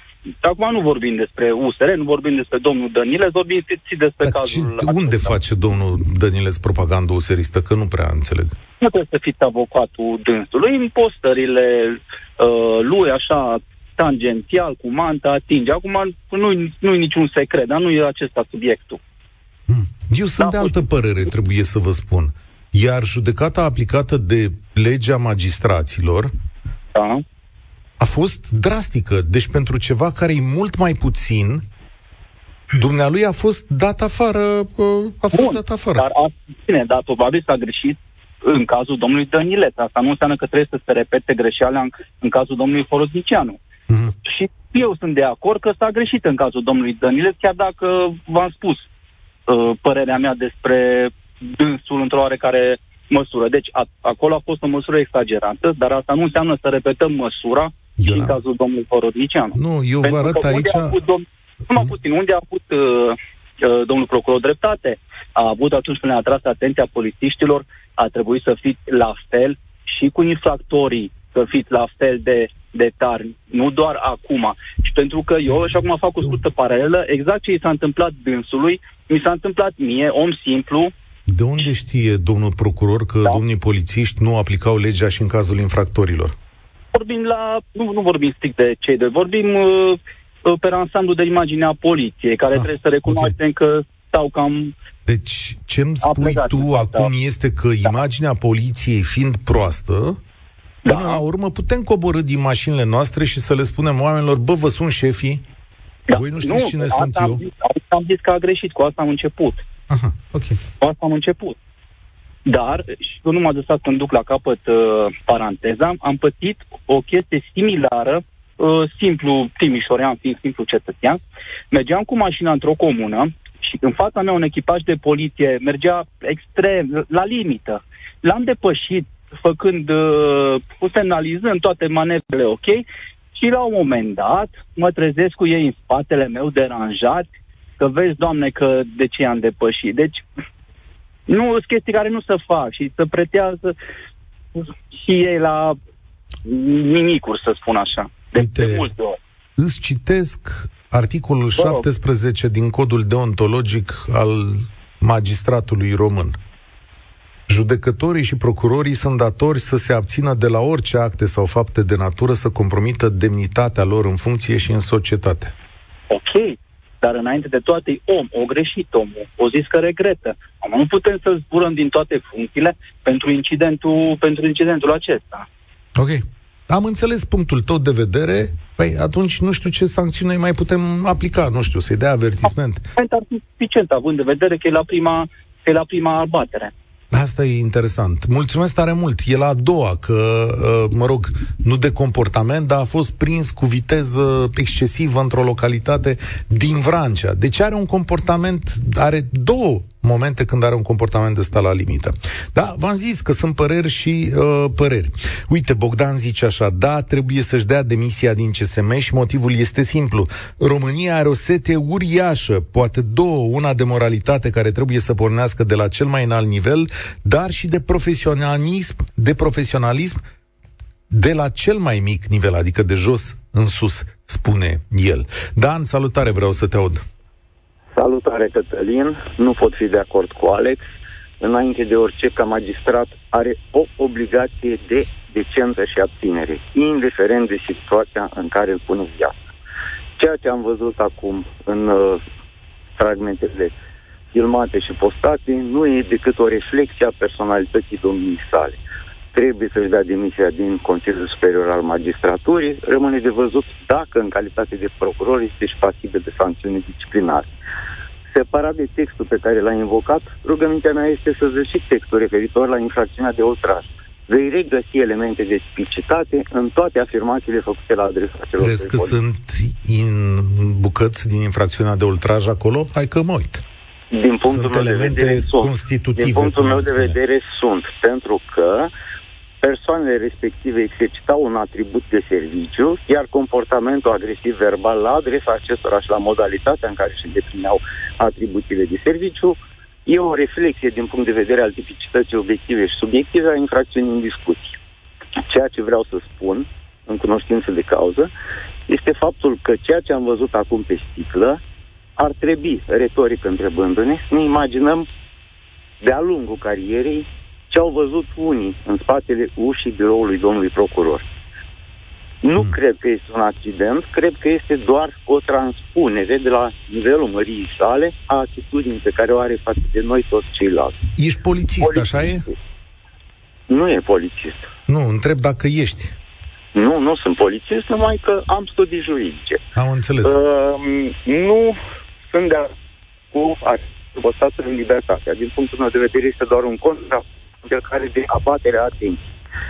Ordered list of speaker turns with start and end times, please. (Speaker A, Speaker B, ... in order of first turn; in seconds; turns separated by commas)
Speaker A: 0.4-5.2, Speaker B: 4.2-8.5, Speaker A: 8.8-19.0, Speaker B: 19.7-26.3, Speaker A: 20.4-20.8, Speaker A: 26.9-27.2, Speaker B: 28.0-31.6, Speaker B: 32.7-36.0, Speaker A: 35.3-43.6, Speaker A: 44.2-48.9, Speaker A: 49.5-80.9, Speaker B: 58.0-58.4, Speaker B: 59.5-61.0, Speaker B: 81.3-86.3, Speaker A: 86.9-94.7, Speaker B: 92.5-93.3, Speaker B: 95.1-100.2, Speaker A: 96.0-97.1, Speaker A: 100.8-101.2, Speaker B: 100.8-105.4, Speaker A: 106.1-109.6, Speaker B: 106.1-107.4, Speaker B: 109.9-110.6, Speaker A: 110.8-111.6, Speaker A: 112.5-121.2, Speaker A: 121.7-137.2, Speaker A: 137.8-140.2, Speaker A: 141.3-143.7, Speaker A: 144.6-145.8, Speaker A: 146.4-149.2, Speaker B: 148.3-148.9, Speaker B: 149.6-156.4, Speaker A: 151.6-151.8, Speaker B: 157.5-165.5, Speaker A: 166.1-175.5, Speaker B: 175.9-182.8, Speaker A: 182.9-186.7, Speaker B: 187.1-220.2, Speaker B: 221.1-227.0, Speaker C: 227.9-230.8, Speaker C: 231.4-239.4, Speaker C: 240.2-242.2, Speaker C: 243.0-243.7, Speaker C: 244.3-248.8, Speaker C: 249.3-257.5, Speaker C: 258.3-269.1, Speaker B: 268.6-273.6, Speaker C: 274.1-278.9, Speaker B: 274.4-277.2, Speaker C: 279.6-294.8, Speaker C: 295.4-298.3, Speaker C: 298.9-301.6, Speaker C: 302.2-305.1, Speaker C: 306.0-311.3, Speaker C: 312.4-321.0, Speaker B: 321.1-322.5, Speaker C: 321.8-322.5, Speaker C: 323.7-324.7, Speaker B: 324.9-326.1, Speaker C: 326.7-329.6, Speaker B: 329.7-330.4, Speaker C: 330.2-331.8, Speaker C: 332.3-332.7, Speaker C: 333.3-339.3